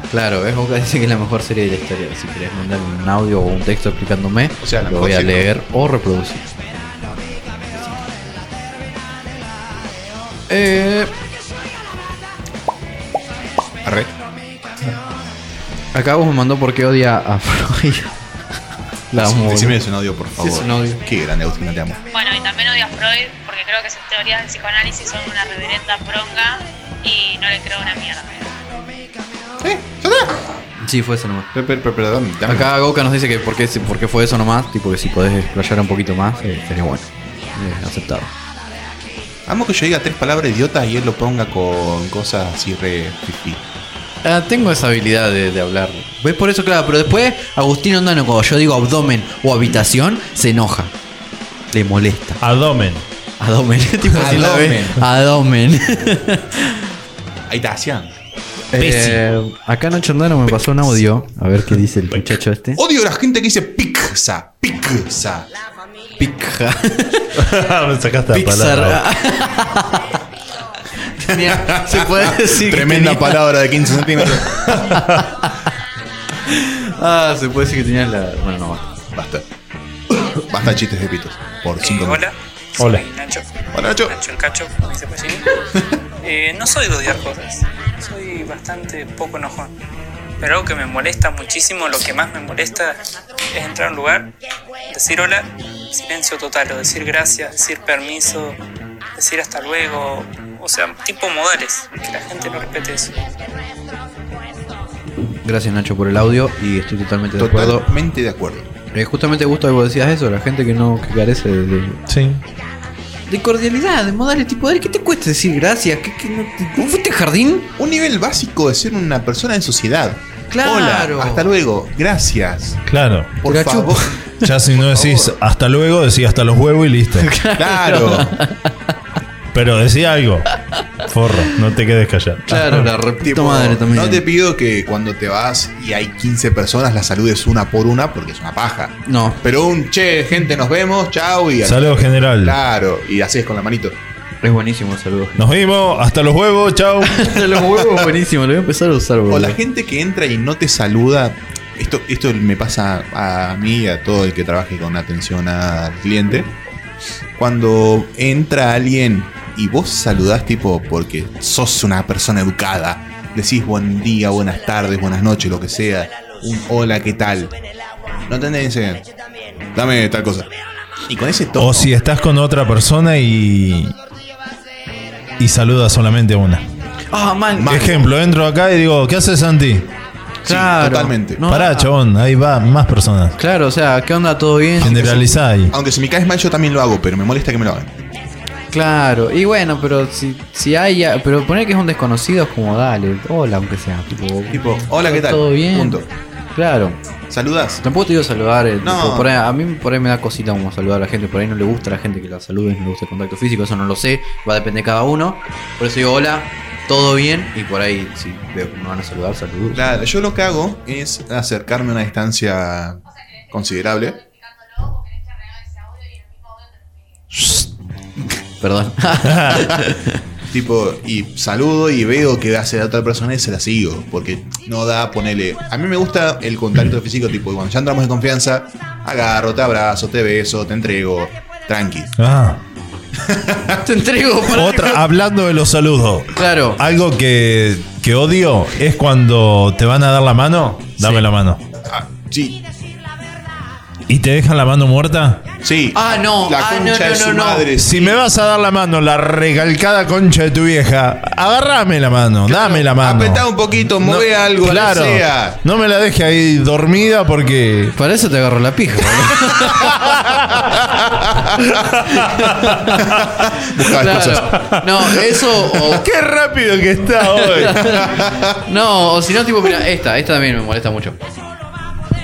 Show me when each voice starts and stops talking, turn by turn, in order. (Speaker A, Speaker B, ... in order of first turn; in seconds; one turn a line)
Speaker A: 0.1-6.5
Speaker B: 4.6-5.5
Speaker A: 10.5-11.1
Speaker B: 13.8-14.1
Speaker A: 15.9-18.1
Speaker A: 19.1-19.8
Speaker B: 19.1-22.0
Speaker A: 20.4-21.0
Speaker C: 22.1-28.6
Speaker B: 29.6-30.5
Speaker A: 30.8-31.5
Speaker B: 31.5-32.7
Speaker A: 32.5-38.3
Speaker B: 39.5-43.6
Speaker A: 44.2-50.9
Speaker A: 51.7-52.4
Speaker D: 52.4-53.0
Speaker A: 53.4-56.9
Speaker B: 54.1-55.0
Speaker B: 57.5-58.1
Speaker A: 58.7-62.8
Speaker D: 58.8-59.2
Speaker B: 62.8-65.5
Speaker A: 66.2-67.4
Speaker D: 67.3-69.0
Speaker A: 68.3-70.1
Speaker A: 71.2-73.5
Speaker B: 71.3-74.8
Speaker A: 74.6-75.5
Speaker D: 74.7-75.2
Speaker A: 76.4-78.9
Speaker B: 79.1-79.5
Speaker B: 80.2-82.2
Speaker E: 81.8-85.5
Speaker B: 83.7-84.1
Speaker E: 86.2-89.7
Speaker E: 90.4-93.0
Speaker E: 93.5-94.3
Speaker E: 94.9-98.6
Speaker E: 99.2-103.2
Speaker A: 105.4-107.9
Speaker B: 107.4-108.7
Speaker A: 108.9-112.0
Speaker D: 112.1-112.4
Speaker A: 113.3-117.7
Speaker B: 117.8-122.8
Speaker A: 120.5-121.5
Speaker D: 122.9-123.3
Speaker B: 123.4-125.3
Speaker A: 123.4-124.4
Speaker D: 124.4-127.3
Speaker A: 127.2-128.7
Speaker B: 127.5-128.3
Speaker D: 129.5-130.5
Speaker D: 131.0-132.9
Speaker A: 132.5-134.2
Speaker B: 133.2-144.0
Speaker A: 139.1-139.4
Speaker D: 141.6-142.6
Speaker A: 144.4-145.4
Speaker D: 145.4-147.5
Speaker A: 147.1-149.6
Speaker B: 149.3-156.5
Speaker B: 157.4-167.5
Speaker B: 168.2-169.0
Speaker B: 169.7-170.5
Speaker B: 171.1-171.9
Speaker D: 171.6-173.9
Speaker D: 175.4-176.7
Speaker A: 177.1-177.9
Speaker B: 177.5-178.1
Speaker D: 177.7-179.9
Speaker B: 180.4-181.4
Speaker A: 180.4-181.9
Speaker D: 181.5-183.3
Speaker A: 183.4-185.2
Speaker D: 184.8-185.7
Speaker B: 184.8-187.9
Speaker A: 188.7-196.0
Speaker B: 194.5-196.1
Speaker A: 196.5-197.0
Speaker B: 197.3-197.8
Speaker A: 197.8-209.8
Speaker B: 198.8-199.3
Speaker B: 209.7-213.0
Speaker C: 213.1-217.2
Speaker B: 213.5-214.2
Speaker A: 218.6-220.2
Speaker D: 219.2-219.7
Speaker B: 220.5-232.1
Speaker D: 232.2-232.6
Speaker B: 233.2-233.8
Speaker A: 233.7-235.0
Speaker D: 234.5-241.6
Speaker A: 236.3-236.8
Speaker A: 241.0-241.2
Speaker B: 241.9-242.6
Speaker D: 244.1-245.5
Speaker B: 245.6-248.2
Speaker A: 245.9-247.7
Speaker D: 247.8-257.9
Speaker B: 252.4-255.6
Speaker A: 257.9-260.2
Speaker D: 259.3-261.0
Speaker B: 261.1-261.7
Speaker D: 261.7-263.0
Speaker A: 262.0-266.1
Speaker B: 263.0-264.7
Speaker D: 264.5-268.2
Speaker A: 267.2-271.2
Speaker B: 267.9-268.6